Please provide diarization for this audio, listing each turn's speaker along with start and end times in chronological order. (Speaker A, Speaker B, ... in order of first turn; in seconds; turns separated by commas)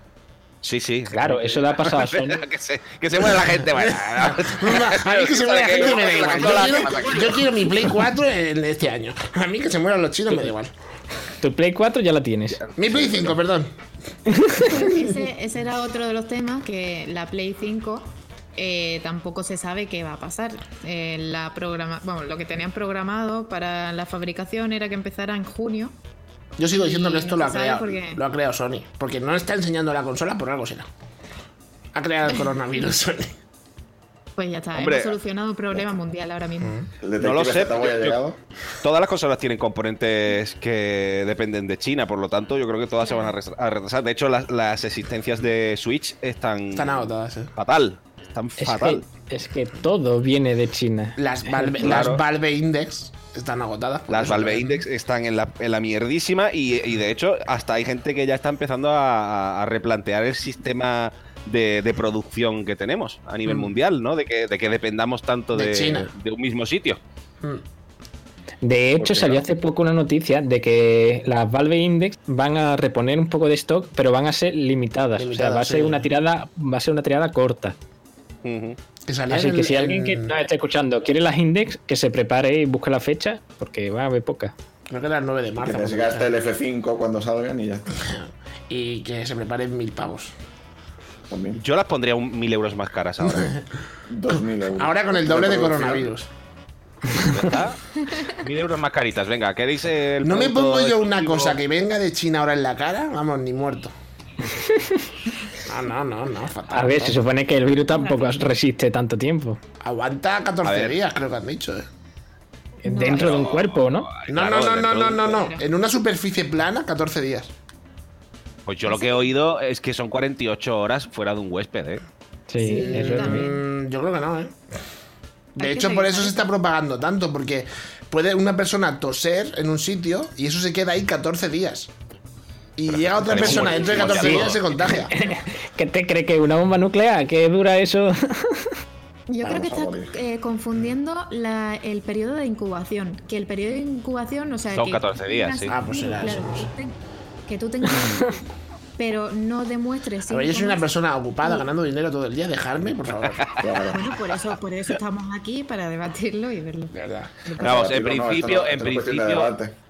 Speaker A: 0.6-7.5, Speaker B: 1.1-2.4, Speaker C: 3.8-10.7, Speaker D: 6.6-7.1, Speaker B: 11.4-12.6, Speaker A: 12.6-13.4, Speaker C: 12.8-13.7, Speaker B: 14.3-14.7, Speaker E: 14.7-25.9, Speaker C: 14.7-15.0, Speaker C: 26.6-30.9, Speaker E: 26.7-28.2, Speaker C: 31.9-33.3, Speaker E: 34.4-36.8, Speaker A: 34.8-35.2, Speaker C: 36.6-36.9, Speaker D: 37.0-38.4, Speaker A: 37.2-38.2, Speaker A: 38.8-49.0, Speaker E: 43.0-43.4, Speaker C: 46.7-47.5, Speaker B: 48.6-51.7, Speaker C: 51.2-54.8, Speaker A: 51.8-52.2, Speaker A: 54.1-67.0, Speaker C: 65.5-66.1, Speaker B: 68.6-77.8, Speaker C: 75.2-76.0, Speaker A: 78.4-78.8, Speaker C: 79.1-80.3, Speaker B: 79.3-84.5, Speaker C: 84.9-86.3, Speaker D: 85.6-87.9, Speaker C: 88.1-90.3, Speaker D: 91.3-91.6, Speaker A: 91.6-93.5, Speaker D: 94.1-96.1, Speaker C: 94.8-96.3, Speaker A: 97.3-101.6, Speaker C: 100.2-103.9, Speaker B: 104.6-105.0, Speaker C: 105.6-107.2, Speaker B: 106.7-109.6, Speaker E: 107.9-108.5, Speaker C: 109.8-111.9, Speaker A: 110.6-111.0, Speaker B: 112.8-114.1, Speaker E: 112.9-113.4, Speaker A: 113.1-115.5, Speaker C: 114.3-117.5, Speaker E: 115.3-115.6, Speaker A: 118.7-122.0, Speaker E: 118.9-119.3, Speaker B: 122.5-123.5, Speaker E: 122.6-123.6, Speaker C: 122.7-124.6, Speaker C: 125.6-131.9, Speaker E: 125.6-126.5, Speaker C: 132.8-135.2, Speaker A: 132.9-135.0, Speaker B: 134.1-134.5, Speaker B: 135.1-138.7, Speaker E: 139.3-146.9, Speaker D: 139.4-140.1, Speaker A: 144.7-145.7, Speaker C: 145.7-146.7, Speaker E: 147.5-148.4, Speaker E: 149.0-150.9, Speaker C: 150.3-153.5, Speaker E: 151.4-151.7, Speaker D: 153.6-154.1, Speaker E: 153.9-158.0, Speaker C: 156.9-157.4, Speaker D: 157.6-159.8, Speaker A: 157.6-159.5